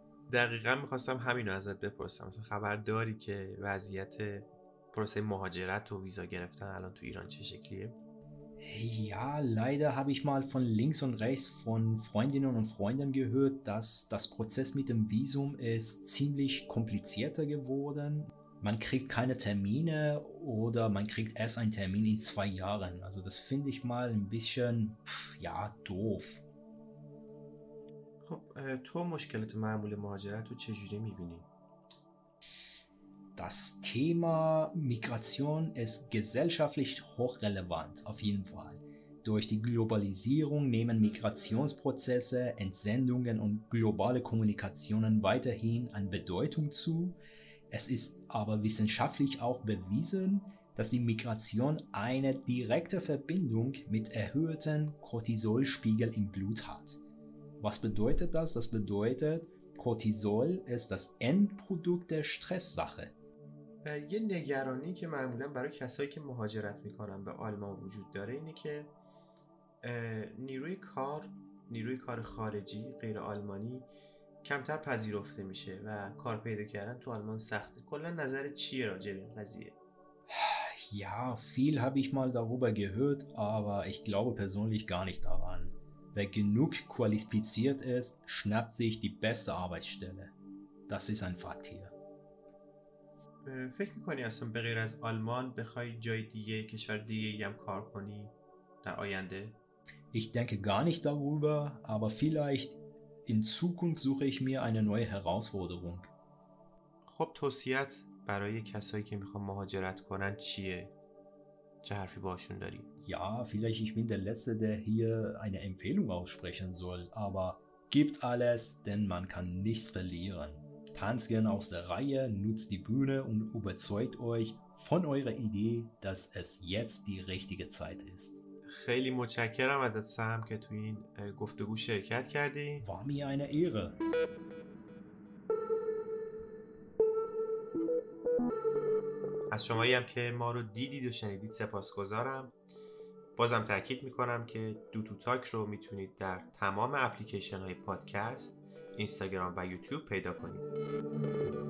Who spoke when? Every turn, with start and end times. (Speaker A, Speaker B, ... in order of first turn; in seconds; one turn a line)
Speaker A: 0.3-8.0
Speaker B: 8.6-26.4
Speaker A: 28.2-31.5
Speaker B: 33.4-47.2
Speaker B: 47.7-57.0
Speaker B: 57.6-63.1
Speaker A: 63.8-68.9
Speaker A: 69.8-73.9
Speaker A: 74.4-79.8
Speaker B: 80.3-90.3
Speaker B: 90.9-92.0
Speaker A: 93.4-99.6
Speaker B: 100.1-106.1
Speaker A: 107.1-110.9
Speaker A: 111.8-112.9
Speaker B: 113.0-128.4
Speaker A: 128.7-132.9
Speaker B: 132.8-134.0
Speaker A: 139.5-142.6
Speaker A: 143.4-150.7